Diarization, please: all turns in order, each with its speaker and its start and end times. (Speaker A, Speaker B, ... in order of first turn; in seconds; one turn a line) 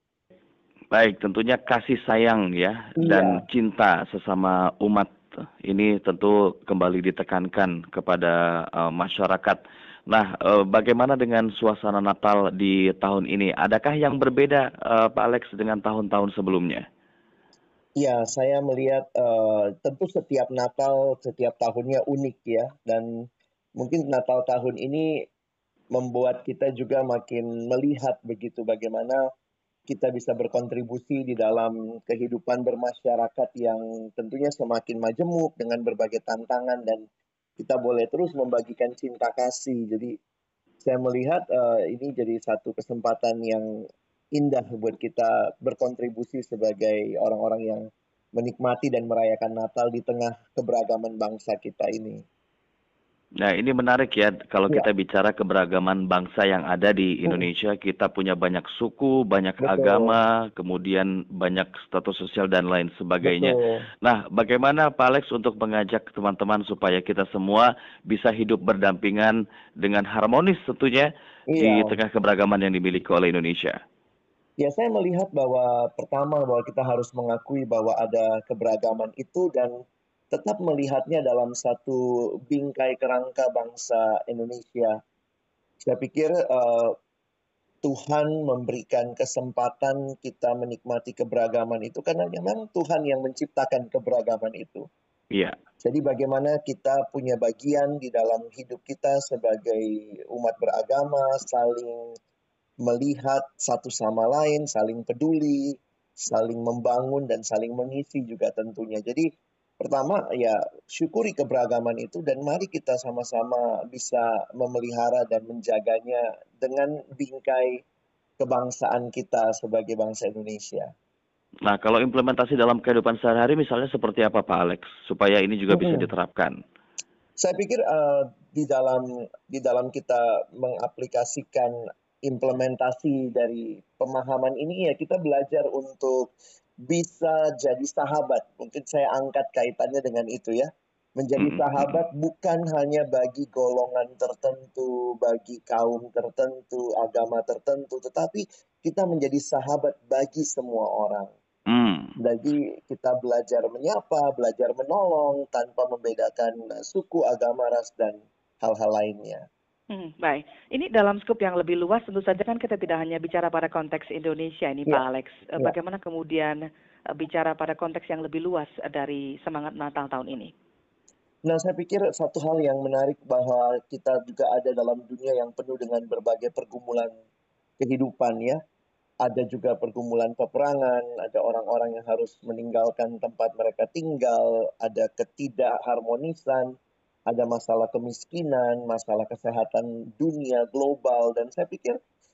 Speaker A: 0.9-5.1
Speaker B: 3.0-3.4
Speaker A: 5.6-9.6
Speaker A: 10.1-16.8
Speaker B: 18.0-23.2
Speaker B: 23.8-25.2
Speaker B: 25.9-29.3
Speaker B: 29.9-37.1
Speaker B: 37.6-40.1
Speaker B: 40.8-43.7
Speaker B: 44.3-52.2
Speaker A: 53.4-73.8
Speaker B: 59.6-60.1
Speaker B: 63.2-63.9
Speaker B: 71.5-72.0
Speaker B: 74.6-79.8
Speaker B: 80.3-85.0
Speaker B: 85.8-87.0
Speaker B: 87.8-94.9
Speaker B: 95.8-102.1
Speaker B: 102.8-109.3
Speaker B: 109.8-117.8
Speaker B: 118.4-120.9
Speaker A: 121.7-126.5
Speaker B: 125.7-126.1
Speaker B: 127.4-131.7
Speaker B: 132.2-136.3
Speaker B: 136.9-151.3
Speaker A: 141.4-142.0
Speaker A: 151.7-152.1
Speaker B: 152.2-159.4
Speaker C: 159.9-166.6
Speaker C: 167.1-170.5
Speaker B: 171.4-177.2
Speaker B: 177.8-178.6
Speaker B: 179.2-186.8
Speaker B: 187.3-192.0